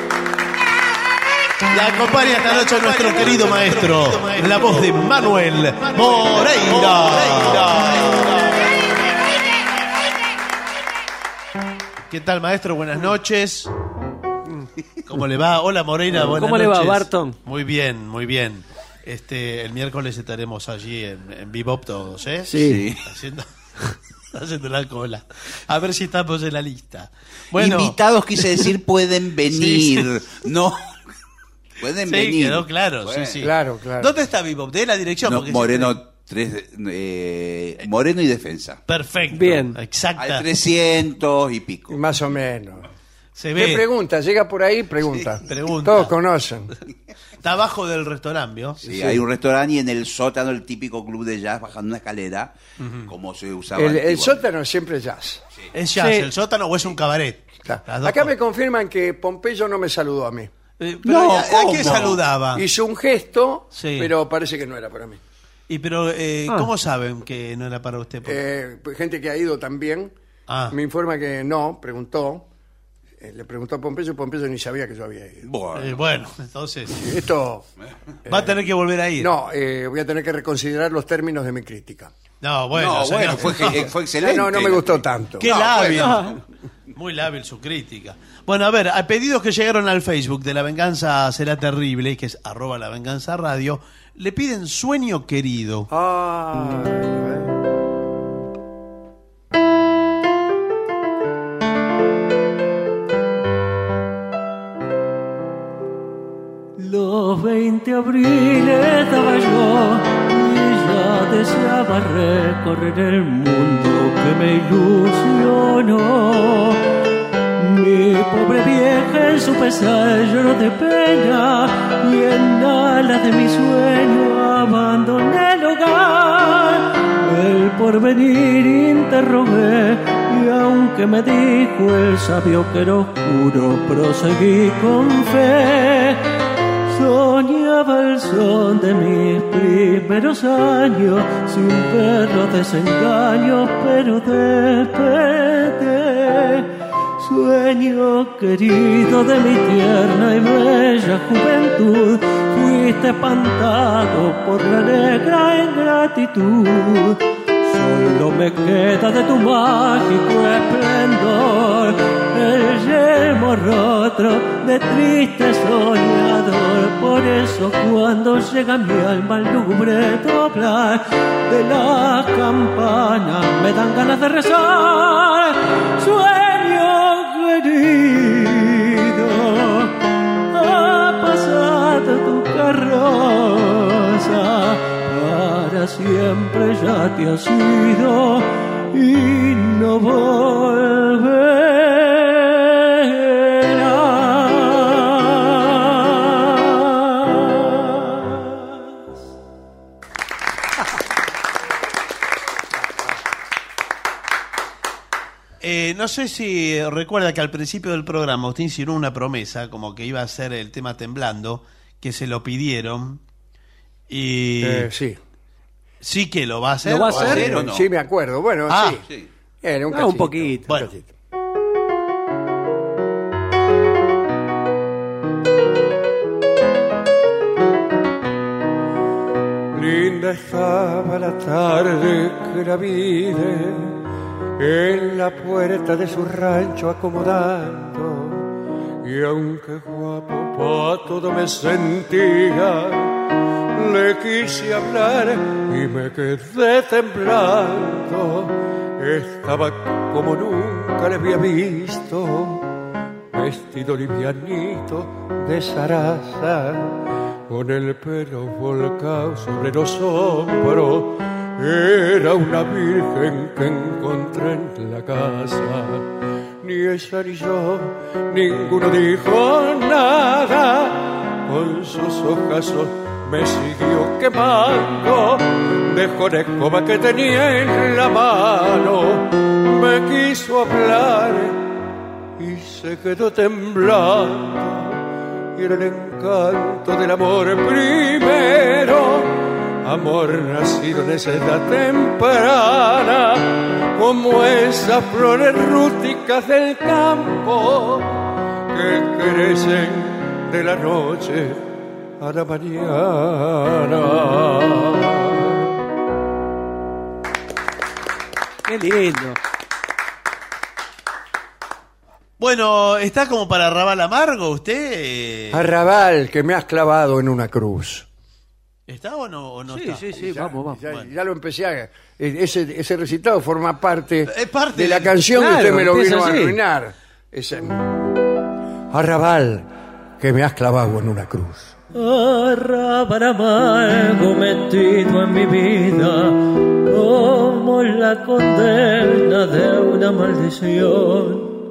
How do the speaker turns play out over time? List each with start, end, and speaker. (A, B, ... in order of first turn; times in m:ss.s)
0:01.7-0:08.5 A
0:12.1-0:13.7 A
0:15.1-0:23.5 A
0:16.1-0:17.4 B
0:22.5-0:22.8 B
0:22.5-0:23.0 C
0:24.3-0:28.0 A
0:27.5-0:30.8 C
0:29.5-0:30.1 A
0:31.8-0:33.4 C
0:32.0-0:36.0 A
0:33.4-0:34.1 D
0:35.2-0:38.8 C
0:38.9-0:40.5 A
0:39.3-0:39.8 B
0:40.2-0:42.0 C
0:41.9-0:42.9 D
0:43.4-0:43.8 A
0:43.6-0:46.7 D
0:45.5-0:46.1 A
0:47.4-0:48.8 A
0:48.8-0:49.2 D
0:48.8-0:52.6 C
0:52.8-0:53.1 A
0:53.1-0:54.4 C
0:53.8-0:55.4 D
0:55.7-0:58.3 A
0:56.0-0:56.3 B
0:57.6-1:00.5 D
1:00.8-1:02.6 A
1:01.0-1:02.2 C
1:01.8-1:05.2 D
1:03.7-1:04.1 A
1:05.7-1:08.4 A
1:08.2-1:10.1 D
1:10.5-1:10.8 A
1:10.7-1:12.5 D
1:13.2-1:15.5 D
1:15.4-1:16.0 C
1:15.8-1:17.0 A
1:16.9-1:17.7 D
1:18.2-1:18.6 D
1:18.3-1:19.3 A
1:19.2-1:22.1 D
1:22.4-1:23.9 A
1:22.7-1:26.4 C
1:23.6-1:25.5 D
1:25.4-1:26.4 A
1:26.9-1:35.9 A
1:35.9-1:37.5 D
1:46.8-1:56.8 E
1:57.6-2:16.2 E
2:16.9-2:59.9 E
3:00.5-3:18.2 E
3:25.6-3:33.2 A
3:34.1-3:34.9 A
3:34.6-3:35.2 D
3:36.0-3:37.6 A
3:36.8-3:37.6 B
3:37.1-3:37.9 C
3:37.3-3:39.0 D
3:38.7-3:39.0 A
3:39.6-3:41.1 D
3:39.9-3:40.7 B
3:49.7-3:54.0 F
3:54.6-3:58.5 F
3:59.0-4:03.2 F
4:03.7-4:12.6 F
4:13.3-4:26.1 F
4:26.6-4:41.6 F
4:42.4-5:01.6 F
5:02.2-5:05.5 F
5:08.7-5:09.4 B
5:12.4-5:15.7 A
5:15.5-5:18.1 D
5:18.9-5:20.2 A
5:19.7-5:20.8 B
5:20.1-5:27.8 D
5:24.3-5:25.2 A
5:25.3-5:26.6 B
5:28.9-5:29.7 D
5:30.2-5:31.8 D
5:31.9-5:41.5 E